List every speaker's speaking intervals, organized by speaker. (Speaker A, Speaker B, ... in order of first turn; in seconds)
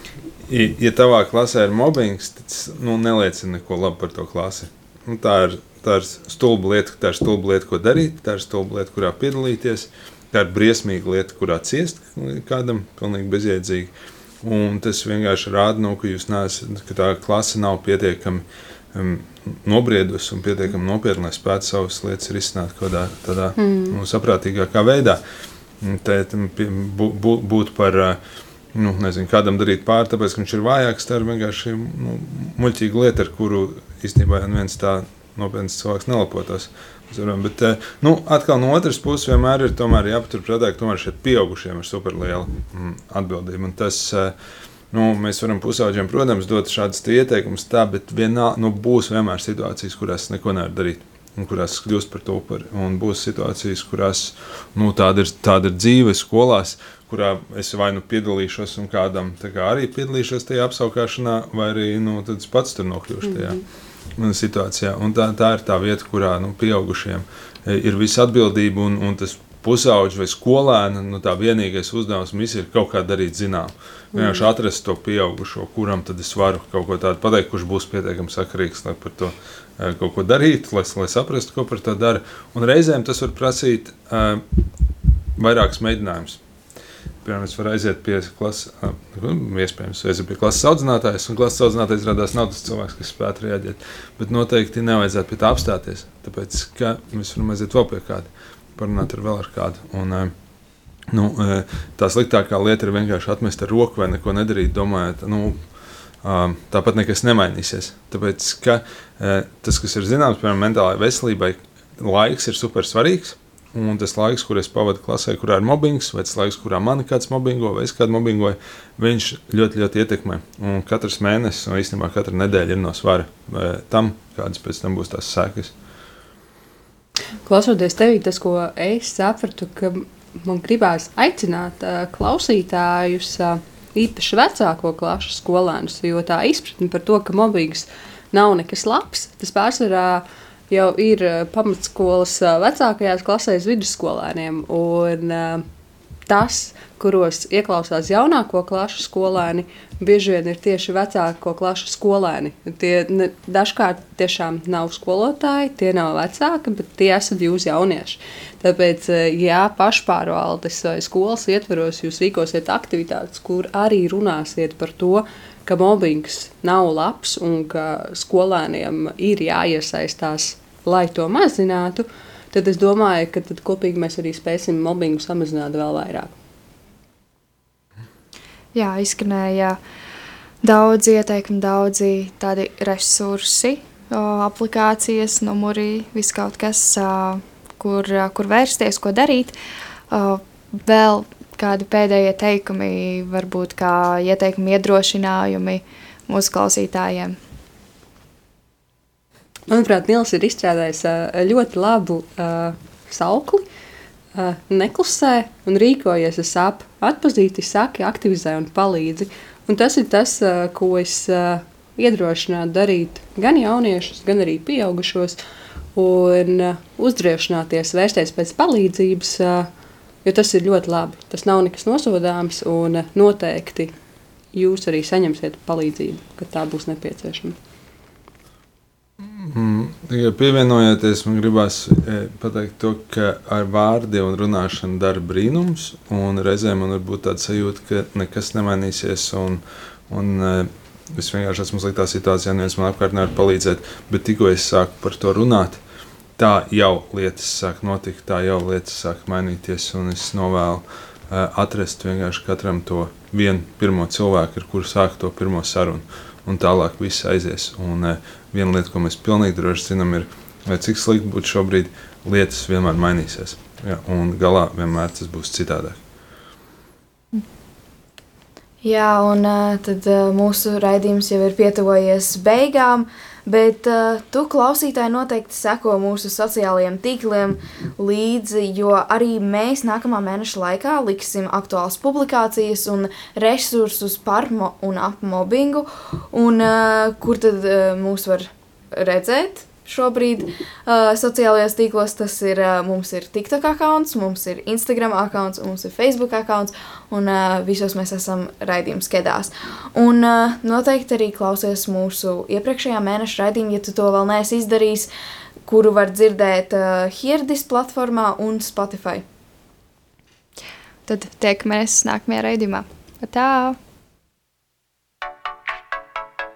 Speaker A: 0.5-25.2, 25.8-28.2, 28.7-44.3, 44.9-63.6, 64.2-84.4, 85.4-86.4, 87.2-100.3, 101.1-105.6, 106.2-125.7, 229.2-245.8, 246.4-266.0
Speaker B: 23.6-24.0, 63.2-63.6, 74.1-74.5, 127.4-145.6, 146.3-176.3, 199.7-203.7, 204.3-215.4, 215.9-219.7, 220.2-223.9, 224.5-227.6
Speaker C: 178.7-179.8, 180.6-189.6, 190.1-197.4, 311.1-313.8
Speaker D: 268.8-305.1, 305.7-309.2